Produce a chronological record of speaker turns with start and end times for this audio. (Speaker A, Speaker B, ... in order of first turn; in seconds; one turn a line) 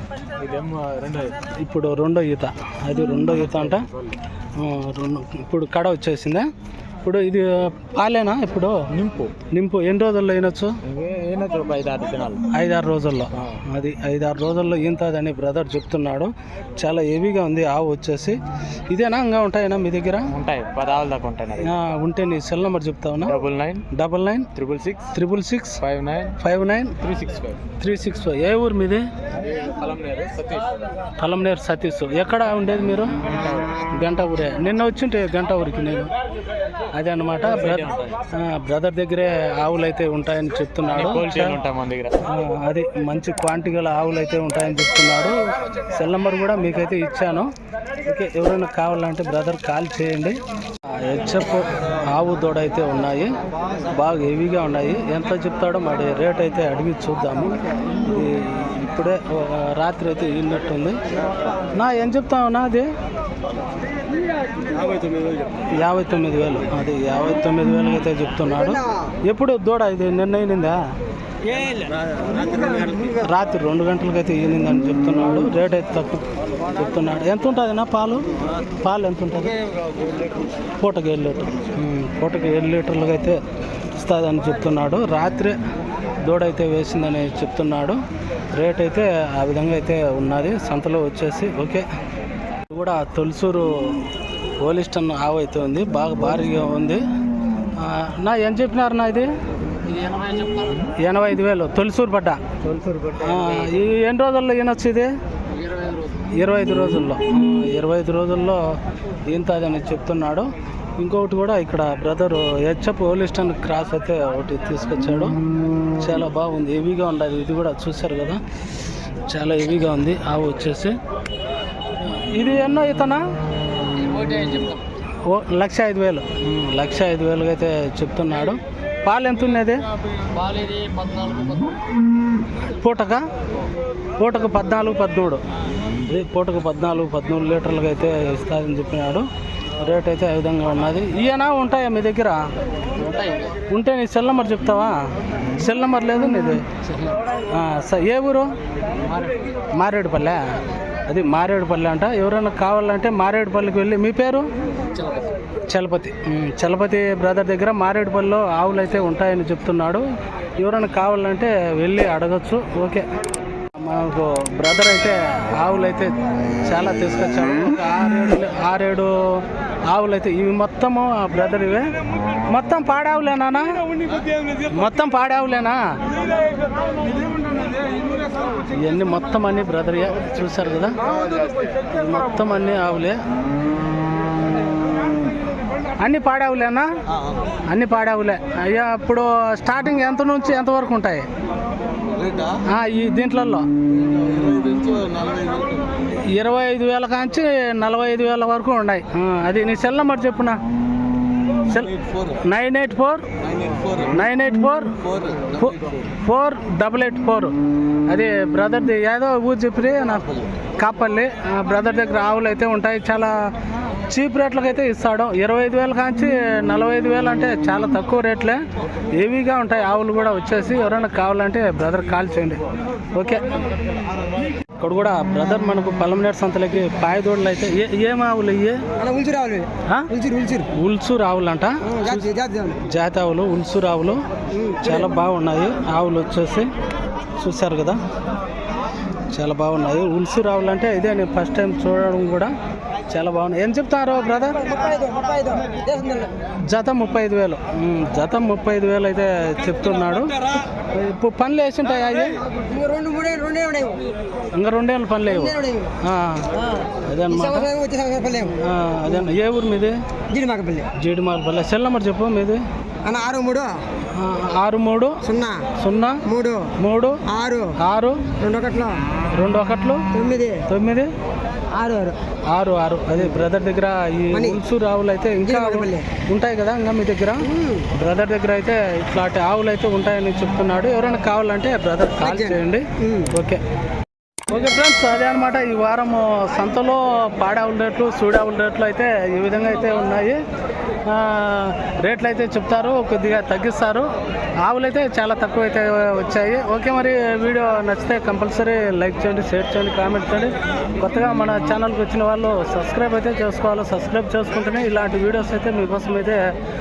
Speaker A: 0.4-1.4
Speaker B: 1.5-3.9
Speaker A: 3.5-4.1
Speaker B: 4.5-6.5
Speaker B: 7.0-8.8
Speaker A: 8.9-9.3
Speaker B: 9.5-10.8
Speaker A: 10.8-12.4
Speaker B: 12.5-20.3
Speaker A: 13.3-13.6
Speaker A: 20.3-21.7
Speaker B: 21.6-23.4
Speaker A: 23.3-23.8
Speaker B: 23.9-24.5
Speaker A: 24.5-25.1
Speaker B: 25.1-25.8
Speaker A: 25.8-26.4
Speaker B: 26.4-26.9
Speaker A: 27.0-27.6
Speaker B: 27.8-29.1
Speaker A: 29.4-30.8
Speaker B: 31.2-33.1
Speaker A: 33.2-33.7
Speaker B: 33.9-36.1
Speaker B: 36.9-41.6
Speaker A: 37.5-38.2
Speaker A: 40.9-42.1
Speaker B: 42.2-47.5
Speaker B: 48.0-61.0
Speaker B: 61.7-62.9
Speaker B: 65.7-70.8
Speaker C: 72.5-72.9
Speaker B: 73.0-78.2
Speaker B: 78.8-79.6
Speaker B: 80.8-83.4
Speaker B: 83.9-85.6
Speaker B: 86.2-88.0
Speaker B: 88.5-91.8
Speaker B: 92.7-94.0
Speaker B: 94.6-97.0
Speaker B: 97.8-99.3
Speaker A: 99.8-100.9
Speaker B: 101.0-102.4
Speaker A: 102.6-103.7
Speaker B: 103.1-105.1
Speaker A: 105.5-106.1
Speaker B: 106.2-115.4
Speaker B: 116.0-118.4
Speaker B: 119.3-121.0
Speaker B: 122.0-123.2
Speaker A: 123.9-124.8
Speaker B: 125.2-129.8
Speaker A: 130.3-131.8
Speaker B: 132.6-133.2
Speaker B: 134.2-135.4
Speaker B: 136.0-139.3
Speaker B: 139.8-142.5
Speaker A: 143.0-143.5
Speaker B: 143.7-146.7
Speaker A: 146.9-147.2
Speaker B: 147.5-148.5
Speaker A: 149.1-149.5
Speaker B: 149.7-150.4
Speaker B: 151.1-154.5
Speaker A: 154.9-155.2
Speaker B: 155.7-160.1
Speaker B: 160.6-163.1
Speaker B: 163.7-171.9
Speaker B: 172.5-173.7
Speaker B: 174.7-176.0
Speaker B: 178.7-181.1
Speaker B: 181.9-183.2
Speaker B: 186.0-186.9
Speaker B: 187.7-191.3
Speaker B: 192.6-193.7
Speaker B: 196.1-200.6
Speaker B: 201.6-203.3
Speaker B: 203.8-207.5
Speaker B: 208.1-213.4
Speaker B: 214.1-218.6
Speaker B: 219.2-223.5
Speaker B: 224.8-228.8
Speaker C: 229.0-230.7
Speaker B: 230.7-232.2
Speaker C: 231.9-232.8
Speaker B: 232.9-234.2
Speaker C: 234.5-235.1
Speaker B: 234.8-236.7
Speaker B: 237.4-238.0
Speaker B: 239.3-242.5
Speaker B: 243.1-244.7
Speaker C: 244.6-246.3
Speaker B: 246.7-250.4
Speaker B: 250.9-252.4
Speaker C: 252.5-254.1
Speaker B: 254.5-257.7
Speaker C: 255.2-255.9
Speaker C: 256.8-258.5
Speaker B: 258.4-260.0
Speaker C: 260.3-260.9
Speaker B: 260.9-262.6
Speaker C: 263.0-263.8
Speaker B: 264.1-265.2
Speaker C: 265.2-265.7
Speaker B: 265.8-266.2
Speaker C: 266.2-266.7
Speaker B: 266.8-267.2
Speaker C: 267.2-267.8
Speaker B: 267.8-268.3
Speaker C: 268.4-269.0
Speaker B: 269.3-270.1
Speaker C: 270.1-270.6
Speaker B: 270.7-271.1
Speaker C: 271.7-272.2
Speaker B: 272.5-283.6
Speaker C: 274.3-274.6
Speaker C: 275.4-276.1
Speaker C: 277.4-277.9
Speaker C: 282.2-283.3
Speaker B: 284.5-290.4
Speaker B: 291.0-294.1
Speaker B: 294.6-306.5